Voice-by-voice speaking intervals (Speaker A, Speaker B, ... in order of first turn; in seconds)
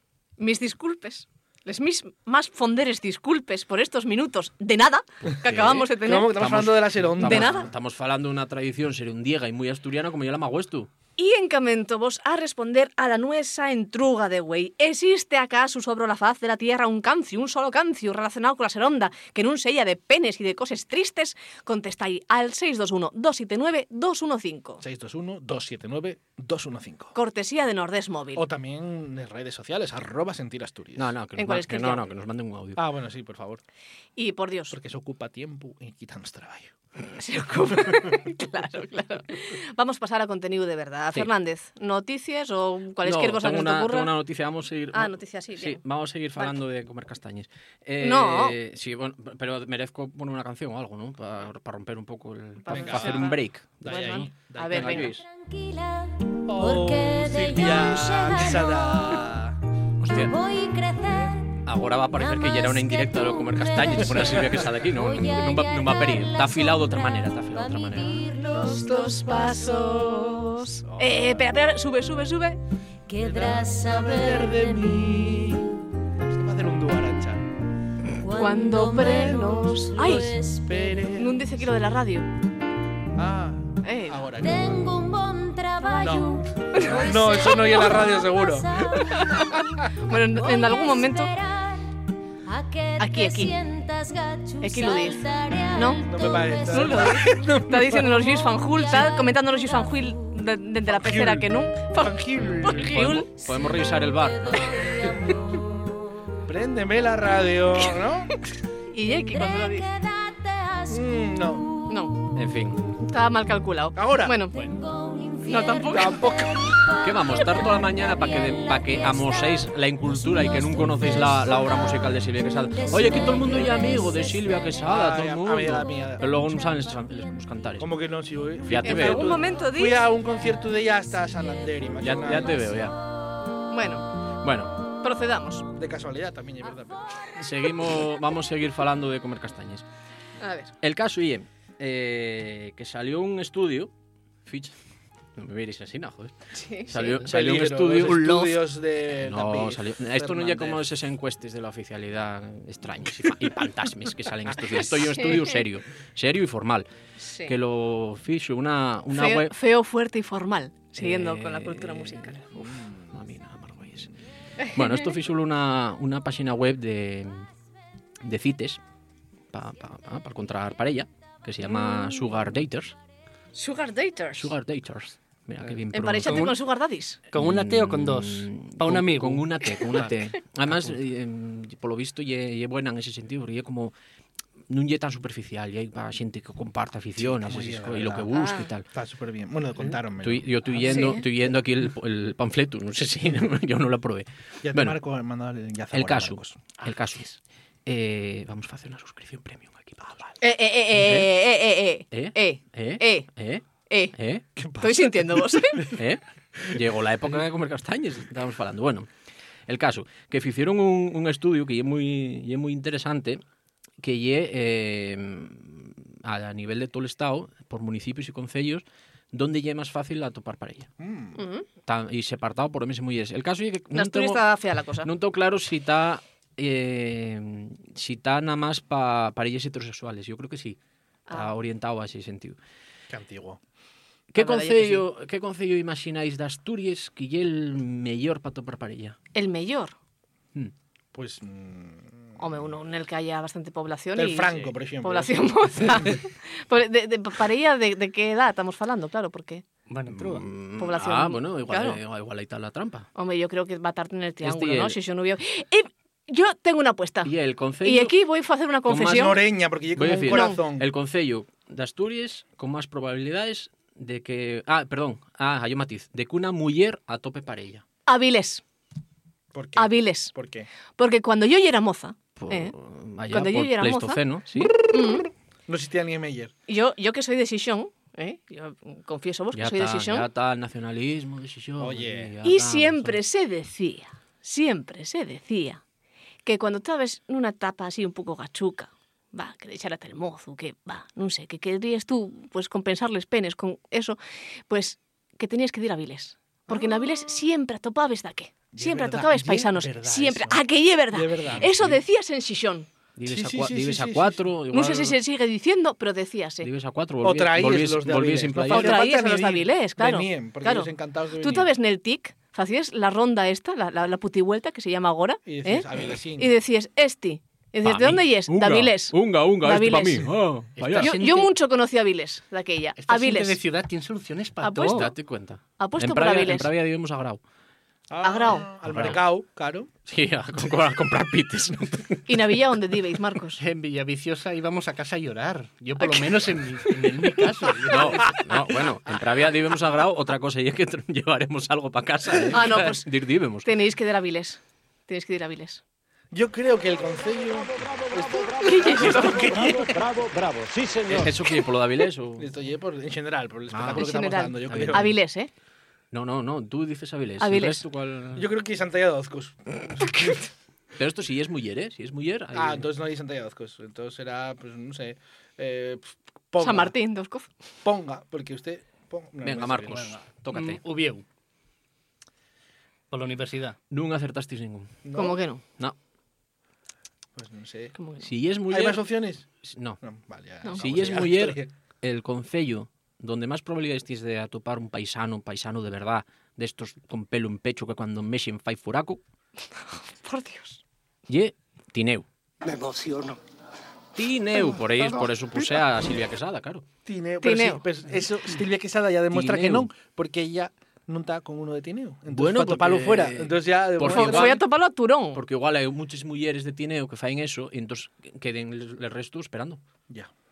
Speaker A: 0.4-6.5, 7.2-7.7, 11.2-24.8, 27.1-28.5, 31.4-32.0, 34.2-34.8, 37.2-44.1, 44.9-45.8, 48.0-48.5, 52.6-55.1, 68.4-72.6, 78.3-80.3, 81.2-82.3, 83.8-84.2, 86.7-88.0, 89.0-91.3, 93.0-93.5, 94.6-96.1, 96.6-103.3, 108.9-109.9, 111.9-112.2, 113.0-114.6, 115.5-116.2, 128.8-130.1, 133.7-134.1, 135.0-135.7, 140.4-140.7, 146.6-147.2, 155.0-155.6, 157.2-157.5, 159.1-162.4, 164.6-165.1, 173.6-174.5, 175.9-177.2, 188.3-188.7, 190.9-191.2, 200.4-203.3, 204.8-205.8, 221.4-221.7, 223.9-225.1, 234.4-235.1, 239.3-240.0, 242.4-249.7, 250.8-252.0, 253.2-257.3, 257.8-259.4, 260.3-260.6, 268.1-268.6, 269.8-270.3, 271.0-272.7, 273.3-274.2, 274.8-275.3, 276.7-280.2, 282.4-285.8, 286.4-302.9, 304.7-306.7, 308.7-310.9, 311.4-320.3, 321.0-323.6, 324.6-325.1, 325.8-326.7, 328.2-328.7, 332.3-333.6, 342.5-343.1, 343.6-345.8, 348.6-349.9, 353.9-355.5, 357.4-357.8, 360.1-360.4, 366.6-367.5, 375.1-375.6, 378.0-378.3, 389.8-390.8, 397.4-397.8, 404.0-405.4
Speaker B: 5.3-10.9, 31.0-32.8, 43.0-55.2, 60.0-60.4, 61.6-68.2, 102.8-104.7, 112.3-112.8, 117.0-127.9, 128.7-129.4, 132.0-133.0, 134.4-134.8, 137.4-139.8, 140.8-143.9, 144.4-144.7, 145.4-146.3, 146.9-148.7, 149.2-156.9, 157.4-159.5, 161.0-164.1, 164.7-167.5, 168.2-168.8, 169.5-172.9, 174.4-176.6, 177.3-183.9, 184.7-188.9, 190.2-195.0, 195.9-200.4, 200.9-201.3, 202.1-203.6, 204.2-204.4, 205.9-209.1, 209.7-213.4, 214.0-220.9, 221.9-224.4, 225.0-230.8, 231.3-232.6, 234.3-239.2, 250.1-253.1, 254.4-255.0, 257.2-258.1, 258.9-259.4, 259.9-267.8, 272.4-274.8, 279.5-283.2, 303.2-305.2, 306.6-309.0, 317.8-321.1, 324.9-327.4, 328.9-329.2, 330.1-332.2, 337.9-343.7, 351.1-352.5, 353.7-354.1, 354.7-355.2, 356.1-358.5, 361.0-362.9, 369.4-370.8, 373.9-375.0, 378.2-379.0, 379.6-380.0, 380.8-389.2, 391.3-392.2, 394.2-396.9, 399.3-399.9, 402.3-404.6, 405.3-409.8
Speaker C: 6.0-7.7, 24.8-27.1, 28.4-31.1, 32.8-33.6, 34.7-36.7, 52.7-55.1, 56.5-59.6, 64.2-64.5, 68.6-70.3, 70.9-71.4, 73.2-77.5, 80.0-81.4, 83.2-84.9, 86.0-89.2, 96.1-98.1, 100.9-103.2, 106.5-108.3, 110.9-111.7, 114.0-114.3, 115.9-116.8, 124.9-126.2, 127.8-132.7, 135.8-137.4, 147.2-150.8, 187.2-188.3, 188.9-191.2, 194.6-196.8, 204.6-205.9, 221.0-221.4, 233.1-233.6, 241.1-242.6, 244.2-246.2, 259.0-260.9, 269.5-270.7, 275.7-276.5, 281.8-282.3, 296.7-297.0, 298.7-302.0, 303.3-304.4, 307.2-311.7, 315.4-316.5, 328.1-329.9, 346.3-351.3, 352.4-355.1, 358.4-360.4, 362.5-366.9, 367.8-370.2, 375.0-375.4, 377.4-377.9, 378.7-379.5, 380.0-381.7, 397.1-404.6
Speaker D: 55.2-59.2, 60.1-69.0, 73.1-75.5, 78.2-81.1, 84.4-97.4, 98.1-100.3, 103.5-106.0, 109.1-112.4, 114.5-122.2, 122.7-124.8
Speaker E: 175.6-176.6, 177.3-179.5, 249.9-250.5, 320.8-321.5, 323.0-325.1, 333.6-338.4, 370.5-371.2, 373.1-373.8